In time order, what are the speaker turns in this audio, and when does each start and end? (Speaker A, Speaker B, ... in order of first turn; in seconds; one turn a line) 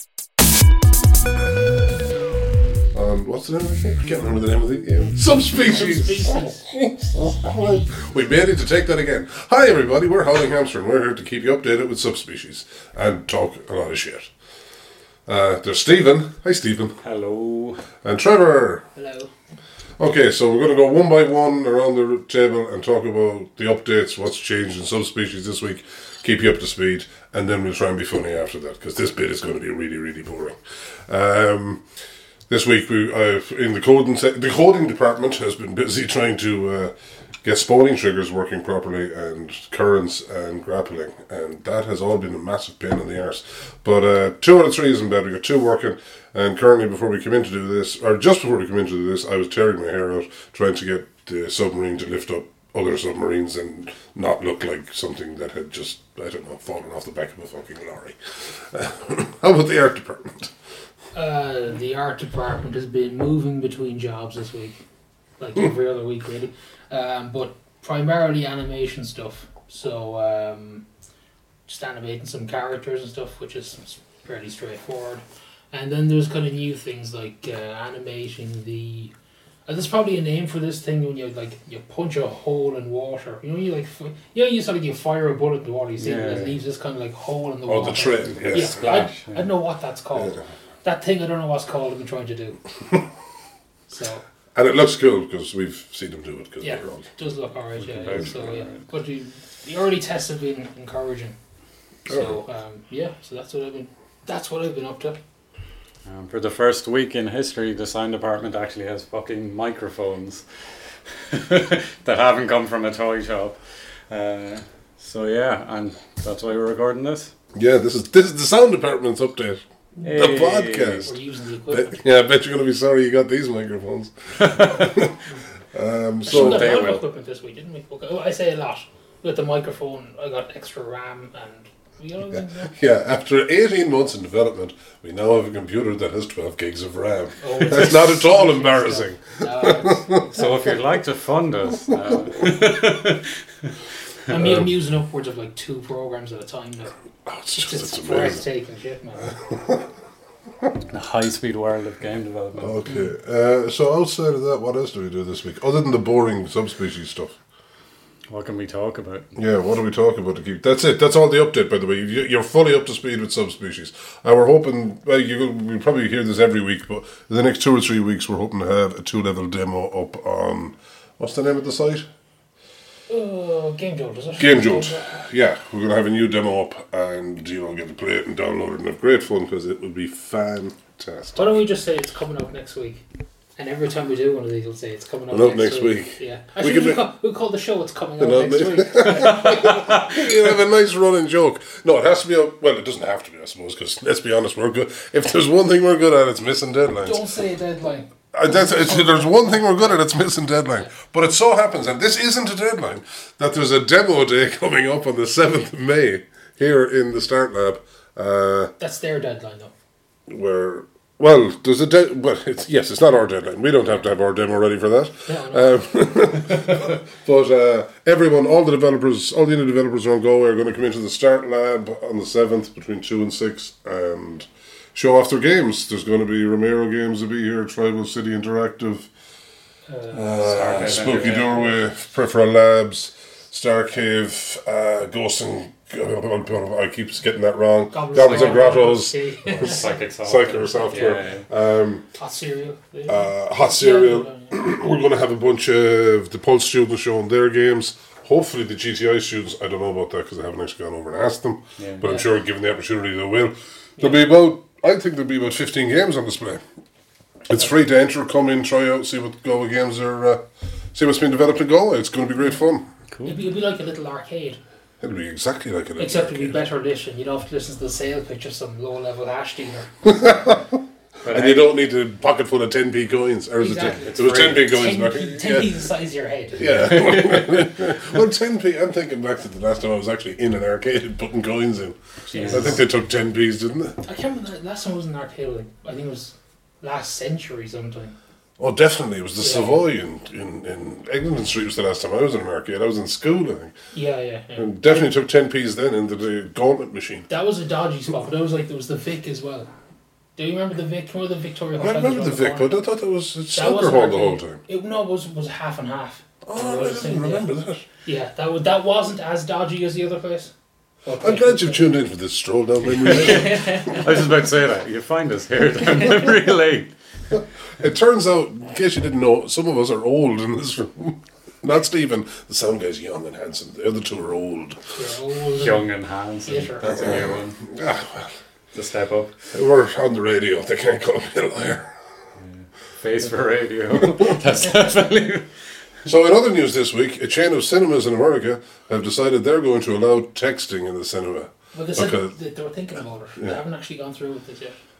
Speaker A: 2.9-14.3
Speaker B: 5.6-6.7
Speaker A: 15.3-17.0
Speaker C: 17.0-17.9
Speaker A: 18.0-18.9
Speaker B: 19.0-19.3
Speaker A: 20.0-31.8
Speaker A: 32.5-36.9
Speaker A: 37.4-60.5
Speaker B: 61.1-64.8
Speaker B: 65.4-70.8
Speaker B: 71.7-79.1
Speaker B: 79.7-92.6
Speaker C: 86.0-86.6
Speaker A: 87.7-88.9
Speaker C: 88.3-89.5
Speaker A: 90.2-90.4
Speaker B: 93.9-94.2
Speaker A: 94.5-97.1
Speaker B: 96.6-101.3
Speaker C: 97.8-98.8
Speaker B: 102.1-105.2
Speaker C: 106.0-110.5
Speaker C: 111.1-117.3
Speaker A: 117.5-121.1
Speaker C: 120.0-121.1
Speaker B: 121.0-122.0
Speaker A: 121.7-125.2
Speaker C: 124.4-124.9
Speaker A: 125.7-126.9
Speaker B: 126.3-132.7
Speaker C: 126.3-127.0
Speaker A: 132.7-140.3
Speaker B: 137.4-140.4
Speaker C: 140.3-143.7
Speaker B: 144.3-146.9
Speaker A: 147.3-148.4
Speaker B: 147.5-149.4
Speaker A: 149.3-149.9
Speaker C: 150.9-152.8
Speaker A: 152.6-157.4
Speaker C: 158.3-159.3
Speaker A: 159.4-172.1
Speaker B: 173.1-175.1
Speaker A: 174.4-181.5
Speaker B: 181.4-183.0
Speaker B: 183.6-190.3
Speaker A: 185.3-187.0
Speaker A: 188.2-197.2
Speaker B: 197.0-199.9
Speaker A: 198.3-208.7
Speaker B: 208.8-209.7
Speaker A: 210.3-229.1
Speaker B: 215.3-215.7
Speaker B: 229.9-231.8
Speaker A: 230.1-242.1
Speaker C: 230.6-231.6
Speaker B: 237.9-240.0
Speaker C: 239.6-241.5
Speaker B: 240.7-241.2
Speaker B: 242.2-244.5
Speaker A: 243.1-256.6
Speaker C: 251.8-252.1
Speaker B: 254.0-254.2
Speaker A: 257.5-260.4
Speaker A: 260.9-262.9
Speaker C: 263.1-263.4
Speaker B: 263.2-264.6
Speaker A: 265.0-266.6
Speaker B: 266.0-270.2
Speaker A: 270.0-275.7
Speaker C: 271.2-271.7
Speaker B: 273.6-276.9
Speaker C: 274.0-274.9
Speaker A: 276.6-284.0
Speaker C: 276.7-277.7
Speaker C: 282.3-282.8
Speaker B: 282.3-282.8
Speaker B: 284.0-288.1
Speaker A: 288.6-293.7
Speaker B: 289.4-289.8
Speaker B: 293.9-295.1
Speaker A: 294.6-297.3
Speaker B: 297.3-299.7
Speaker B: 300.4-302.7
Speaker A: 301.8-304.6
Speaker B: 303.5-307.5
Speaker A: 306.5-307.9
Speaker B: 308.1-310.5
Speaker B: 311.1-311.9
Speaker A: 311.2-314.0
Speaker C: 313.0-316.9
Speaker B: 313.1-314.1
Speaker A: 317.8-324.8
Speaker B: 324.9-325.9
Speaker C: 325.6-327.6
Speaker B: 326.5-327.0
Speaker A: 326.9-328.3
Speaker C: 328.7-329.3
Speaker A: 329.5-331.9
Speaker C: 332.4-335.5
Speaker A: 336.1-342.3
Speaker B: 341.7-344.8